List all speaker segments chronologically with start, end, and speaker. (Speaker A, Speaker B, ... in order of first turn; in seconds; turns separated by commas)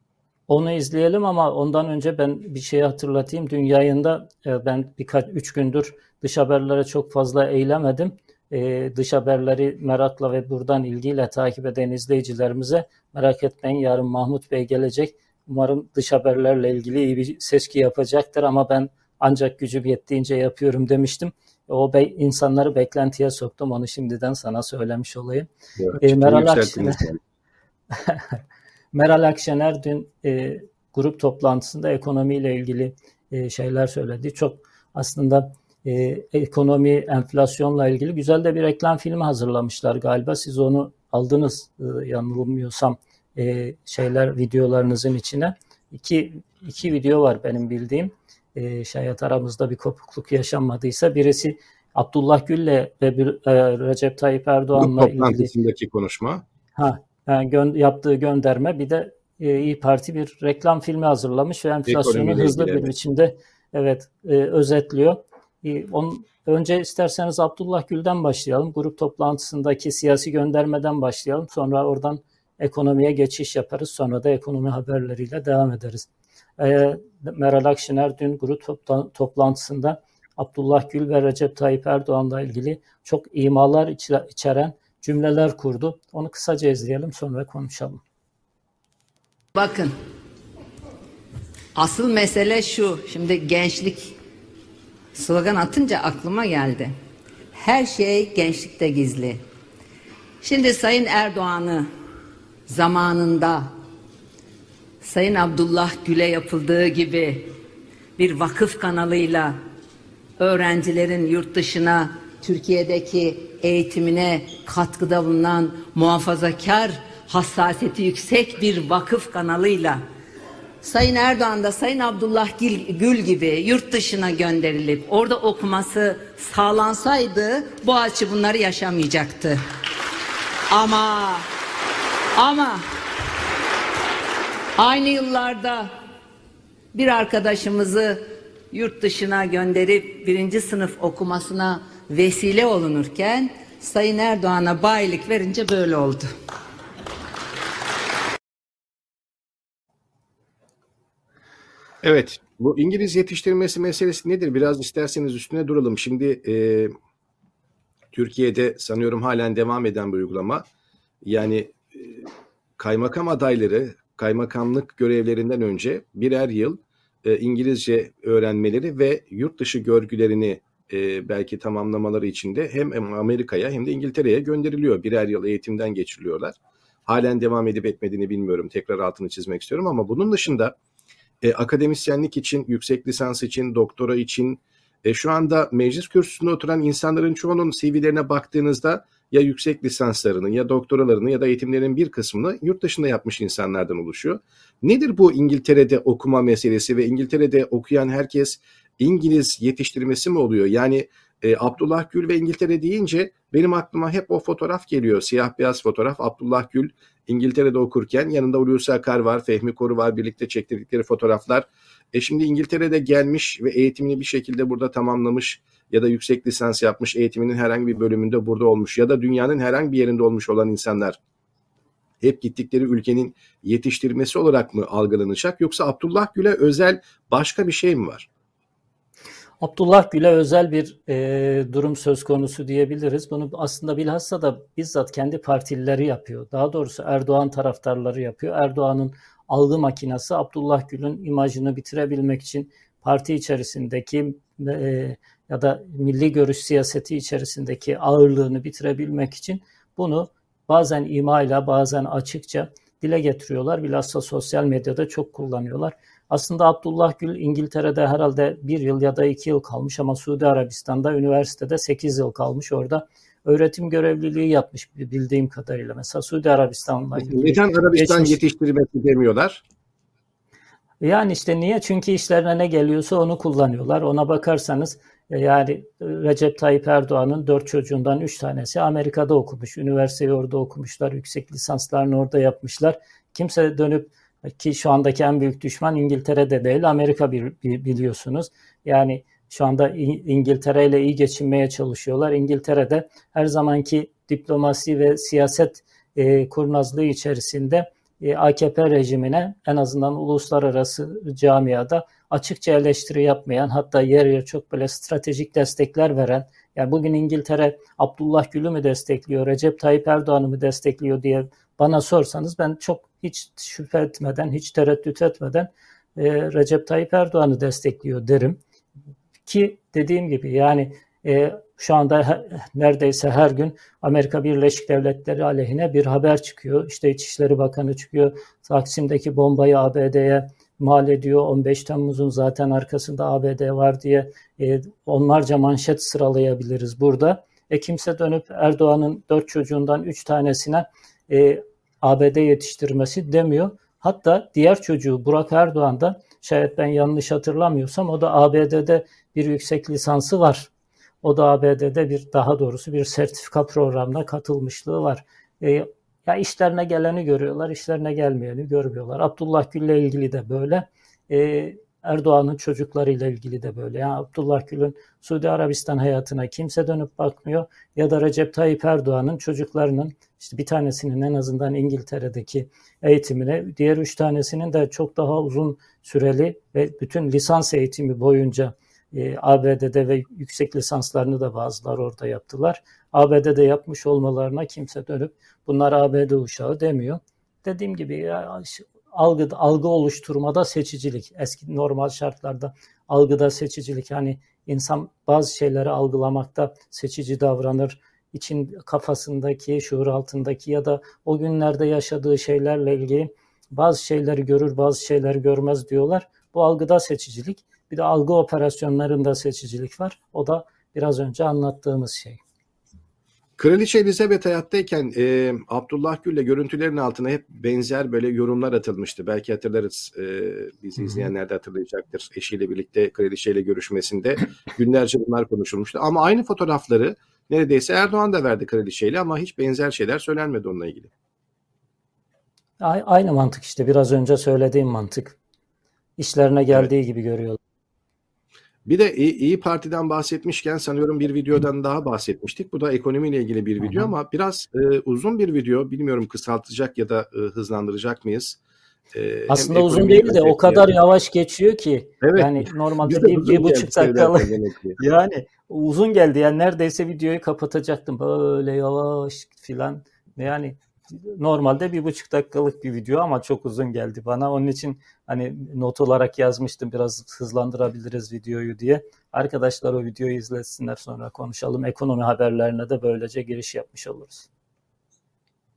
Speaker A: 0.5-25.5, Speaker B: 25.8-27.2, Speaker A: 26.0-27.0, Speaker A: 27.9-28.4, Speaker A: 28.9-55.5, Speaker B: 54.8-56.4, Speaker A: 56.8-76.1, Speaker B: 61.9-62.9, Speaker A: 76.6-88.0, Speaker C: 89.5-89.9, Speaker C: 91.7-94.1, Speaker C: 95.1-96.9, Speaker C: 97.5-99.4, Speaker C: 100.4-101.9, Speaker C: 102.7-103.7, Speaker C: 105.0-107.5, Speaker C: 108.2-109.5, Speaker C: 110.4-120.0, Speaker C: 120.8-129.6, Speaker C: 130.7-131.4, Speaker C: 132.3-132.8, Speaker C: 134.8-135.9, Speaker C: 136.9-146.3, Speaker B: 152.0-156.9, Speaker B: 158.1-160.6, Speaker B: 161.2-162.2, Speaker B: 162.8-180.7, Speaker B: 181.4-221.2, Speaker B: 222.2-228.3, Speaker A: 229.6-268.4, Speaker B: 267.2-269.6, Speaker A: 271.0-318.6, Speaker A: 319.4-350.7, Speaker A: 351.2-412.4, Speaker B: 413.6-431.1, Speaker A: 432.8-435.4, Speaker A: 436.2-437.6, Speaker B: 438.8-448.6, Speaker B: 449.1-450.9, Speaker A: 449.5-474.5, Speaker B: 452.2-455.0